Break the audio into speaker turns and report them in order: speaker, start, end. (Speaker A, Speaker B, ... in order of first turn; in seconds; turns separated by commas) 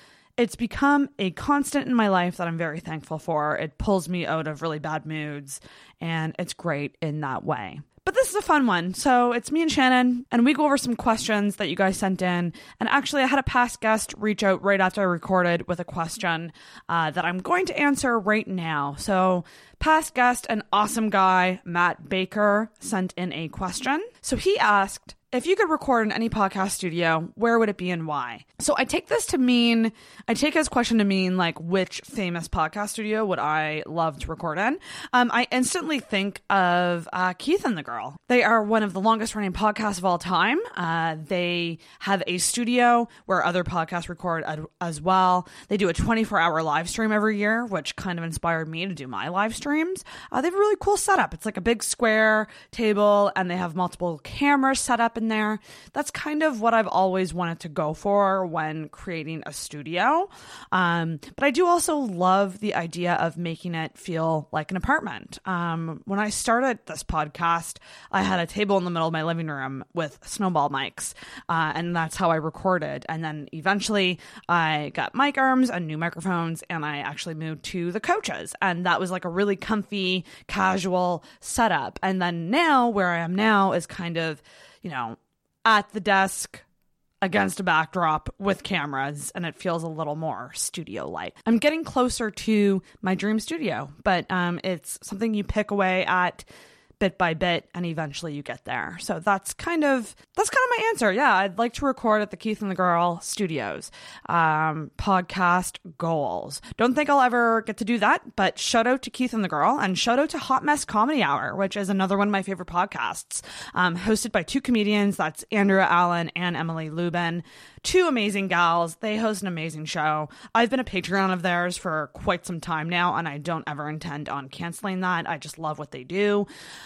Speaker A: 0.4-86.6, Speaker A: 87.2-96.5, Speaker A: 97.0-126.5